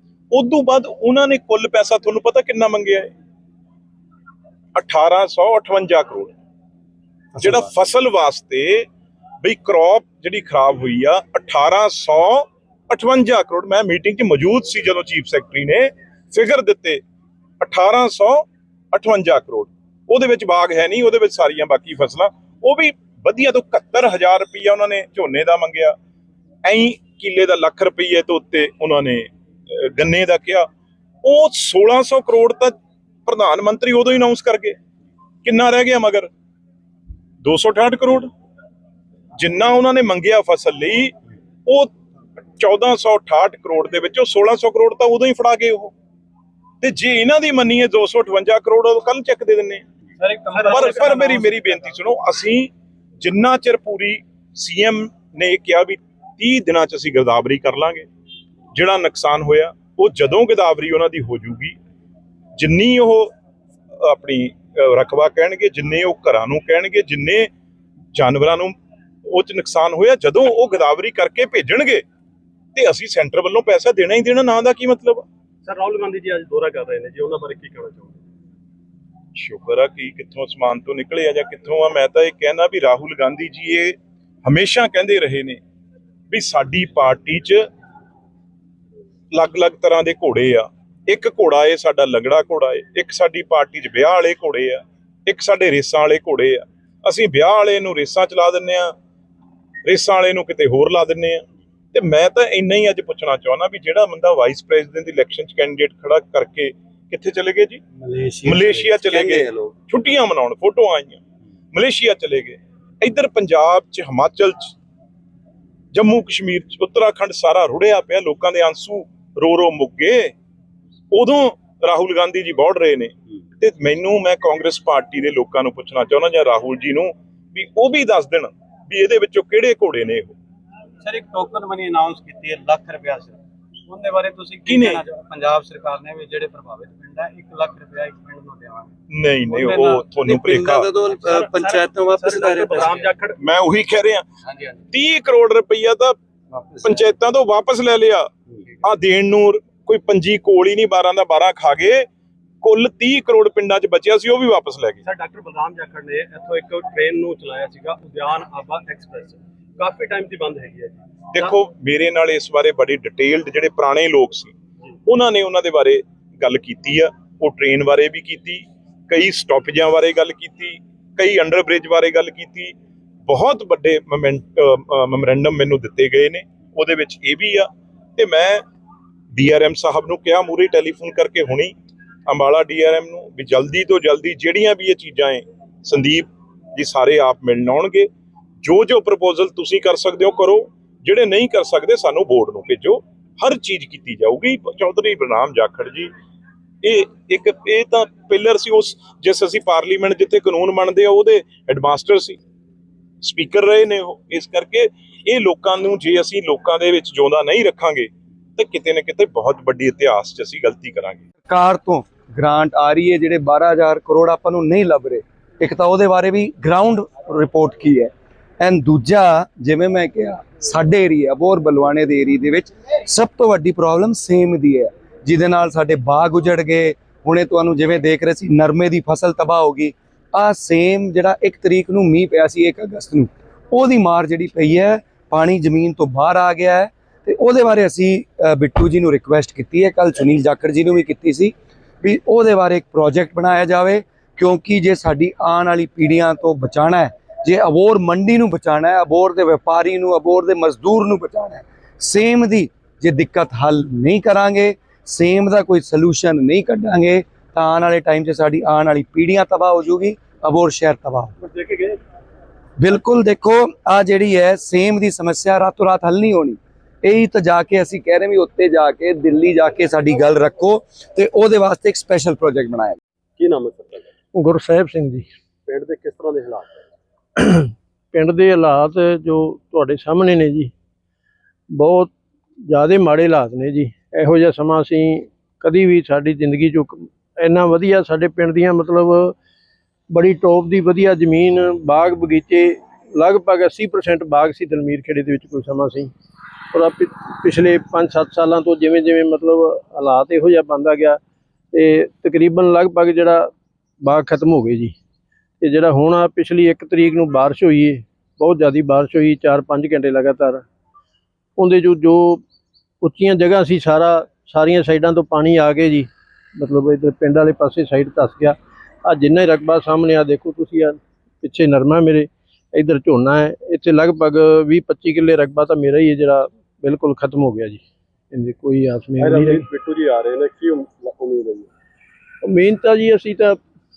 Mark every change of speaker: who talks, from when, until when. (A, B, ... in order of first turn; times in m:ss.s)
0:00.3-0:03.1 A
0:04.8-0:06.3 A
0:07.4-0:08.9 A
0:09.4-0:17.0 A
0:17.6-0:26.0 A
0:26.6-0:30.7 A
0:31.2-0:32.7 A
0:33.3-0:34.8 A
0:35.4-0:36.3 A
0:37.4-0:38.3 A
0:39.4-0:41.1 A
0:41.7-0:41.9 A
0:42.6-0:45.9 A
0:46.8-0:49.9 A
0:50.2-0:52.0 B
0:50.6-0:58.1 A
0:58.7-1:01.8 A
1:02.6-1:03.3 A
1:04.0-1:07.5 A
1:08.1-1:08.8 A
1:09.3-1:12.0 A
1:12.8-1:15.2 A
1:15.6-1:18.2 C
1:19.4-1:25.6 A
1:26.3-1:27.6 A
1:29.3-1:39.0 A
1:39.9-1:47.8 A
1:48.0-1:49.7 B
1:48.4-1:51.2 A
1:51.7-1:54.7 A
1:55.9-2:00.3 A
2:01.1-2:10.4 A
2:11.0-2:18.9 B
2:14.6-2:15.0 A
2:19.1-2:20.9 A
2:19.4-2:23.2 B
2:22.2-2:22.9 C
2:23.4-2:24.3 A
2:24.4-2:24.8 B
2:24.9-2:26.2 A
2:26.5-2:27.1 B
2:26.8-2:28.3 A
2:28.8-2:32.1 A
2:32.6-2:35.0 A
2:35.0-2:41.5 C
2:41.3-2:44.5 A
2:45.1-2:52.7 A
2:53.3-2:58.6 A
2:59.3-3:01.7 A
3:02.3-3:08.1 A
3:08.6-3:16.1 A
3:16.8-3:22.4 A
3:23.2-3:31.2 A
3:31.5-4:21.4 D
4:21.4-4:22.0 C
4:22.8-4:33.0 D
4:33.4-4:34.1 C
4:34.3-4:35.3 E
4:35.7-4:36.8 C
4:37.4-4:40.7 E
4:41.7-4:42.1 E
4:42.6-4:49.4 E
4:50.1-4:56.1 E
4:56.7-5:01.2 E
5:01.7-5:05.0 E
5:05.6-5:10.6 E
5:11.6-5:12.4 E
5:13.0-5:29.7 E
5:29.2-5:31.7 C
5:32.4-5:33.6 E